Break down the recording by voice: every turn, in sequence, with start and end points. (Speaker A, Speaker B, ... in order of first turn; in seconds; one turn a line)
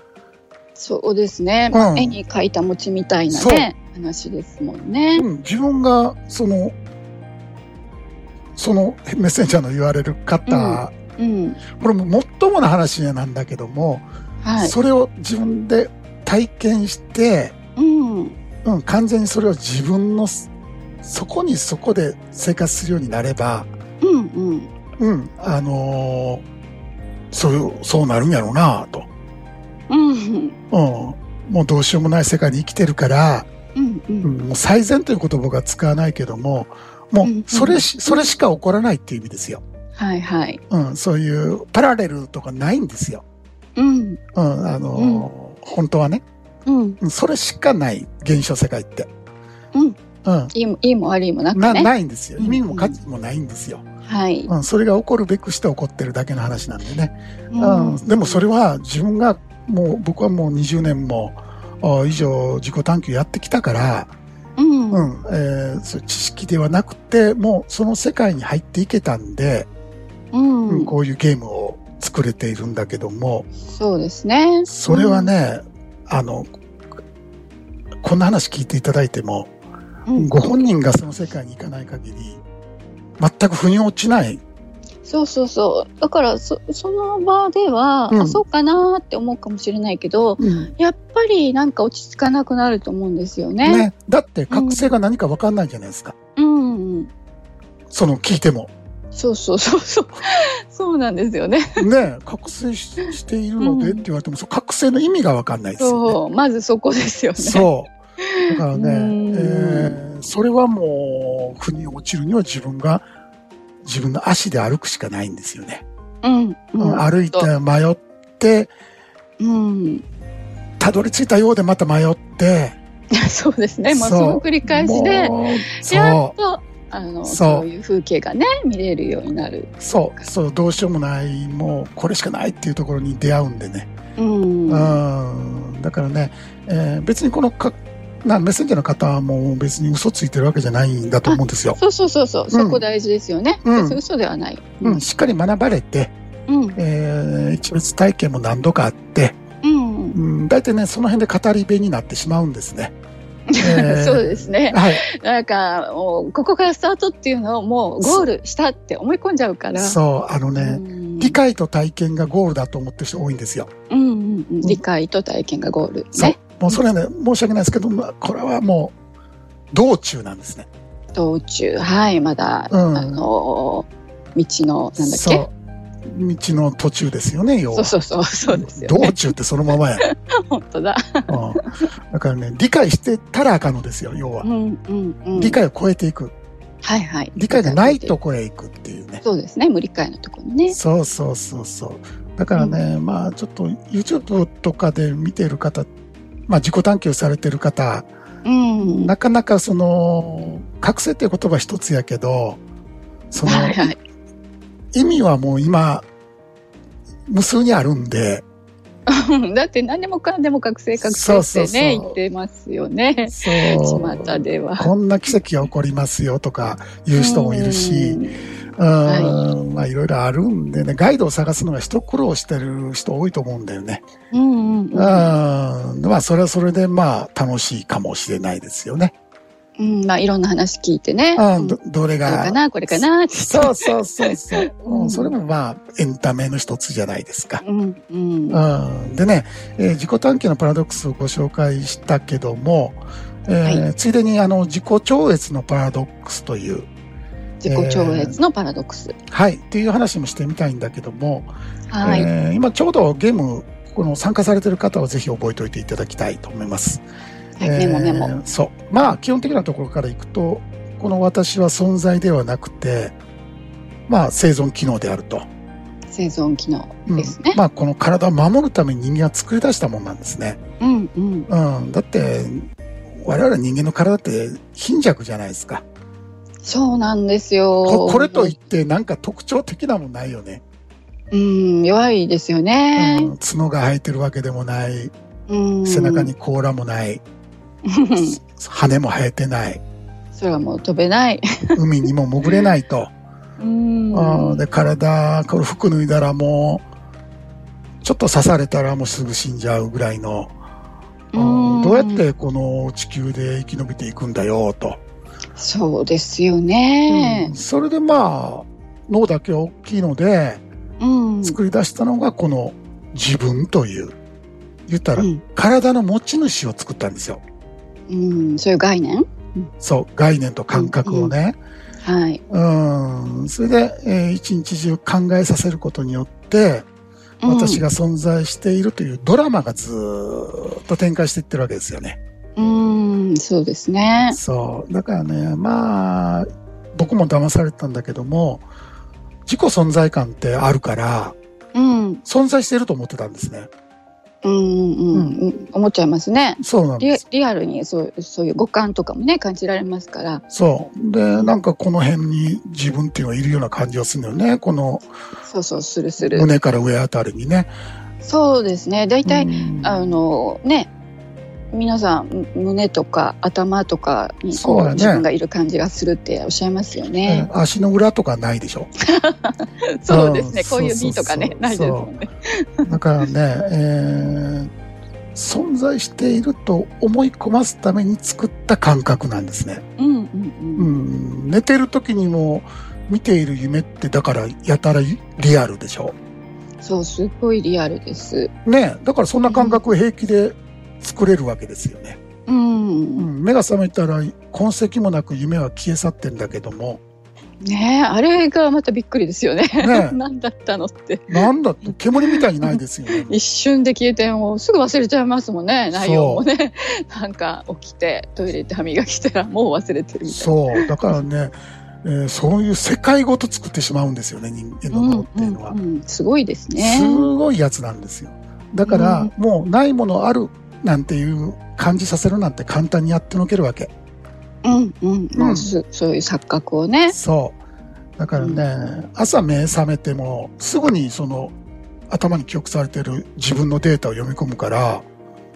Speaker A: 0.8-5.3
Speaker B: 1.7-2.2
Speaker B: 3.3-3.7
Speaker B: 5.2-6.8
Speaker B: 8.6-10.9
Speaker A: 10.5-11.6
Speaker B: 11.7-14.0
Speaker A: 14.4-14.8
Speaker B: 14.6-17.5
Speaker A: 17.8-18.4
Speaker B: 18.6-20.5
Speaker B: 21.0-23.7
Speaker A: 24.0-24.7
Speaker B: 25.0-26.4
Speaker B: 27.3-29.1
Speaker A: 29.9-30.6
Speaker B: 30.7-33.5
Speaker A: 33.7-34.3
Speaker B: 34.2-39.6
Speaker A: 37.2-38.3
Speaker A: 39.9-40.6
Speaker B: 40.7-43.2
Speaker A: 43.8-44.2
Speaker B: 44.3-46.2
Speaker A: 45.0-45.3
Speaker A: 46.6-47.0
Speaker B: 47.0-49.1
Speaker B: 50.2-50.5
Speaker A: 50.5-53.0
Speaker B: 51.5-53.9
Speaker A: 54.0-54.5
Speaker B: 54.5-64.1
Speaker A: 57.5-58.1
Speaker A: 64.6-65.1
Speaker B: 64.9-69.7
Speaker A: 70.3-70.9
Speaker B: 70.7-73.5
Speaker A: 73.7-75.3
Speaker B: 74.7-76.5
Speaker B: 78.0-79.5
Speaker A: 80.1-80.4
Speaker B: 80.1-82.4
Speaker B: 83.2-84.4
Speaker A: 85.0-93.9
Speaker B: 88.1-88.4
Speaker B: 90.4-90.7
Speaker B: 93.6-96.1
Speaker A: 94.5-94.9
Speaker A: 96.3-97.1
Speaker B: 97.9-98.7
Speaker A: 99.1-101.8
Speaker B: 101.8-106.2
Speaker A: 103.6-104.0
Speaker A: 105.8-110.0
Speaker B: 107.4-113.0
Speaker B: 113.8-115.8
Speaker A: 116.2-117.5
Speaker B: 116.8-118.7
Speaker A: 119.4-120.0
Speaker B: 120.8-122.8
Speaker A: 123.1-129.7
Speaker B: 123.9-126.3
Speaker B: 127.2-127.7
Speaker B: 129.8-133.9
Speaker A: 134.2-135.0
Speaker B: 134.7-141.8
Speaker A: 141.2-145.0
Speaker B: 142.5-142.8
Speaker B: 143.6-144.0
Speaker B: 144.8-146.1
Speaker A: 146.5-146.8
Speaker B: 146.8-149.4
Speaker A: 149.6-150.2
Speaker B: 150.1-152.9
Speaker A: 153.5-160.0
Speaker B: 153.6-155.0
Speaker B: 158.0-158.3
Speaker B: 159.7-163.7
Speaker A: 160.6-161.4
Speaker A: 163.9-166.8
Speaker B: 166.1-168.9
Speaker B: 169.7-170.7
Speaker A: 171.1-175.4
Speaker B: 172.7-173.2
Speaker B: 174.9-175.5
Speaker B: 176.0-177.9
Speaker A: 177.7-179.3
Speaker B: 178.5-180.0
Speaker A: 180.0-181.9
Speaker B: 181.3-184.5
Speaker A: 184.4-185.6
Speaker B: 185.3-186.3
Speaker A: 186.8-188.1
Speaker B: 187.3-189.2
Speaker A: 189.2-190.8
Speaker B: 190.7-195.9
Speaker A: 192.5-192.8
Speaker B: 196.5-198.1
Speaker A: 198.4-199.1
Speaker B: 198.8-202.6
Speaker B: 203.3-203.9
Speaker A: 203.4-204.0
Speaker B: 204.9-206.1
Speaker B: 207.3-208.4
Speaker A: 209.1-214.9
Speaker B: 211.0-212.2
Speaker B: 213.2-218.2
Speaker A: 217.1-218.5
Speaker B: 218.8-224.0
Speaker A: 219.1-219.4
Speaker A: 224.3-225.3
Speaker B: 224.9-229.1
Speaker A: 229.8-235.3
Speaker B: 231.3-237.6
Speaker A: 237.6-238.6
Speaker B: 238.5-246.9
Speaker A: 247.6-249.2
Speaker B: 247.6-248.4
Speaker B: 249.3-257.0
Speaker A: 251.9-252.3
Speaker A: 257.6-258.3
Speaker B: 257.6-263.2
Speaker B: 264.1-265.5
Speaker A: 266.1-267.6
Speaker B: 267.1-270.6
Speaker A: 270.8-271.5
Speaker B: 271.5-275.8
Speaker A: 276.6-278.6
Speaker B: 277.8-280.6
Speaker A: 281.3-283.3
Speaker B: 282.9-285.1
Speaker A: 285.5-286.3
Speaker B: 285.8-287.2
Speaker A: 287.8-288.4
Speaker B: 288.1-289.8
Speaker A: 290.3-291.8
Speaker B: 291.8-293.1
Speaker A: 293.6-294.6
Speaker B: 294.1-296.8
Speaker B: 298.0-300.5
Speaker A: 301.3-302.2
Speaker B: 301.3-305.0
Speaker A: 305.6-307.5
Speaker B: 307.1-310.6
Speaker A: 311.0-311.6
Speaker B: 311.4-314.1
Speaker B: 314.9-317.4
Speaker A: 315.2-315.4
Speaker A: 318.1-319.7
Speaker B: 319.8-321.6
Speaker A: 320.7-321.3
Speaker A: 322.0-322.4
Speaker B: 322.5-326.9
Speaker A: 327.4-327.8
Speaker B: 327.4-332.2
Speaker A: 332.6-334.4
Speaker B: 334.3-338.7
Speaker B: 339.4-341.4
Speaker A: 341.7-342.2
Speaker B: 342.2-343.7
Speaker A: 344.4-350.4
Speaker B: 345.1-345.4
Speaker B: 346.6-347.2
Speaker B: 350.5-355.1
Speaker A: 355.4-356.5
Speaker B: 356.2-357.7
Speaker A: 358.2-360.9
Speaker B: 359.2-360.2
Speaker A: 361.7-367.5
Speaker B: 364.5-365.2
Speaker B: 367.2-368.9
Speaker A: 369.1-372.9
Speaker B: 370.1-372.1
Speaker B: 372.9-374.7
Speaker B: 375.3-379.8
Speaker A: 380.0-380.9
Speaker B: 380.8-386.1
Speaker A: 386.8-388.5
Speaker B: 388.6-392.2
Speaker A: 389.5-389.8
Speaker A: 392.5-393.3
Speaker B: 393.2-397.0
Speaker A: 397.6-401.5
Speaker B: 399.8-400.2
Speaker B: 401.3-403.3
Speaker A: 402.1-411.2
Speaker B: 405.9-406.4
Speaker B: 410.2-415.8
Speaker A: 414.9-417.3
Speaker B: 416.8-423.9
Speaker A: 418.8-419.3
Speaker A: 424.6-427.1
Speaker B: 425.4-425.7
Speaker B: 427.1-427.6
Speaker B: 428.2-431.5
Speaker A: 428.3-428.6
Speaker B: 432.1-435.1